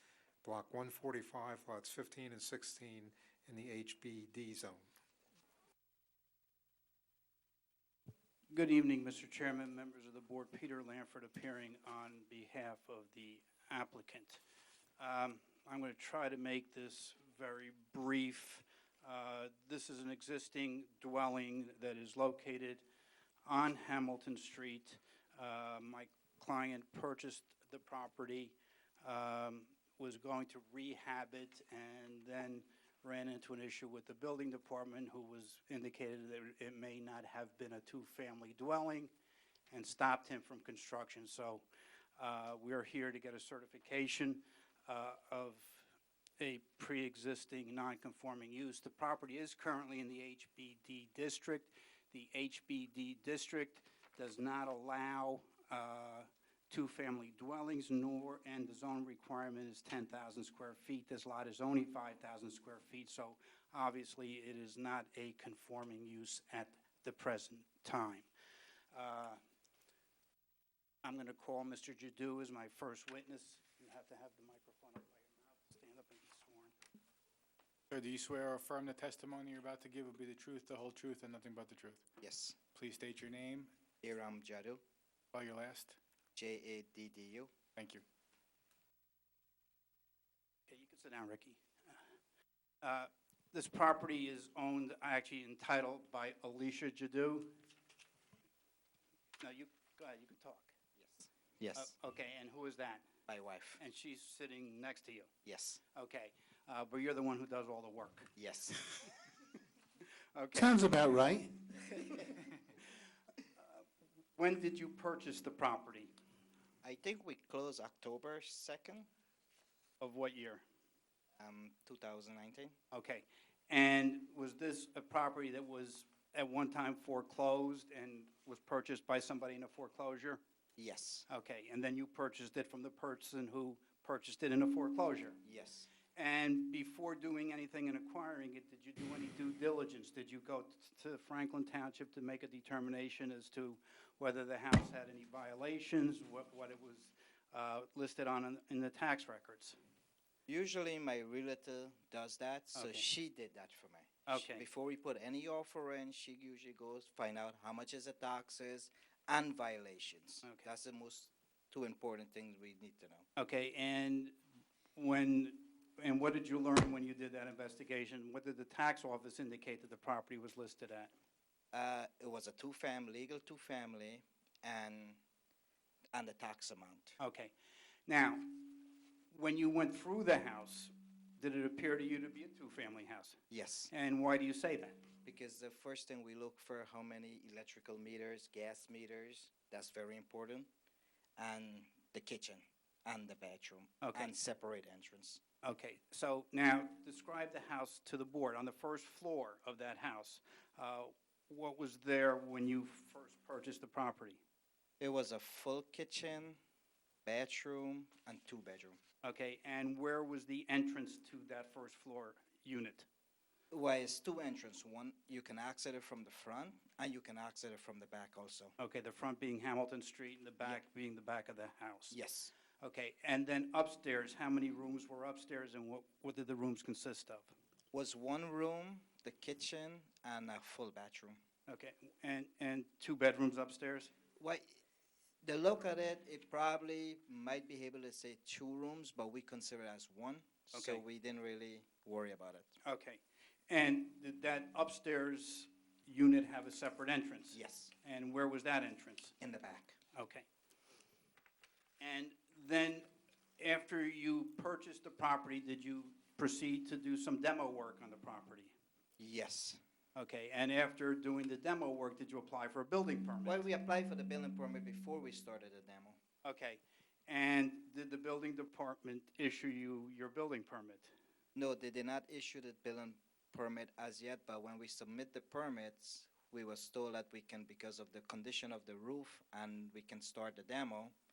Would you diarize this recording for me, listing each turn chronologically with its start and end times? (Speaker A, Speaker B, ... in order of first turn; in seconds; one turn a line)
Speaker A: 0.4-4.8
Speaker B: 8.5-14.4
Speaker B: 15.0-22.8
Speaker B: 23.4-39.1
Speaker B: 39.7-41.7
Speaker B: 42.2-45.9
Speaker B: 46.4-68.3
Speaker B: 68.9-69.4
Speaker B: 71.0-76.7
Speaker C: 77.9-82.0
Speaker D: 82.2-82.6
Speaker C: 82.7-83.7
Speaker D: 84.0-84.8
Speaker C: 85.3-86.0
Speaker D: 86.4-87.5
Speaker C: 87.8-88.0
Speaker B: 90.7-91.6
Speaker B: 92.8-97.5
Speaker B: 99.4-100.7
Speaker D: 101.0-101.9
Speaker B: 101.8-103.1
Speaker D: 103.3-103.8
Speaker B: 103.8-105.3
Speaker D: 105.5-105.8
Speaker B: 105.9-108.3
Speaker D: 108.4-109.1
Speaker B: 110.3-112.4
Speaker B: 114.4-116.1
Speaker D: 116.8-119.1
Speaker B: 120.0-120.6
Speaker D: 121.4-122.8
Speaker B: 122.9-130.4
Speaker D: 130.8-131.3
Speaker B: 131.3-135.4
Speaker D: 135.4-135.9
Speaker B: 136.2-149.8
Speaker D: 150.5-163.3
Speaker B: 152.8-153.0
Speaker B: 154.3-154.6
Speaker B: 160.4-160.7
Speaker B: 163.4-164.4
Speaker B: 165.0-171.1
Speaker D: 171.7-175.2
Speaker D: 176.1-177.2
Speaker B: 177.2-177.5
Speaker B: 178.1-183.4
Speaker D: 183.5-183.9
Speaker B: 183.9-185.0
Speaker D: 185.2-190.7
Speaker D: 191.4-195.4
Speaker B: 194.0-194.3
Speaker B: 195.6-204.4
Speaker D: 205.0-206.6
Speaker D: 207.3-209.0
Speaker B: 209.2-213.1
Speaker D: 213.7-218.7
Speaker B: 218.8-222.2
Speaker D: 222.1-222.5
Speaker B: 222.8-227.5
Speaker D: 227.9-231.4
Speaker B: 231.7-234.1
Speaker D: 234.4-234.8
Speaker D: 235.4-242.7
Speaker B: 240.7-241.0
Speaker B: 242.8-249.3
Speaker D: 247.5-247.9
Speaker D: 249.4-250.0
Speaker B: 250.1-250.5
Speaker B: 252.0-253.1
Speaker B: 253.6-258.7
Speaker D: 259.2-259.8
Speaker B: 260.2-263.7
Speaker D: 263.4-266.2
Speaker B: 266.4-271.1
Speaker D: 271.6-281.1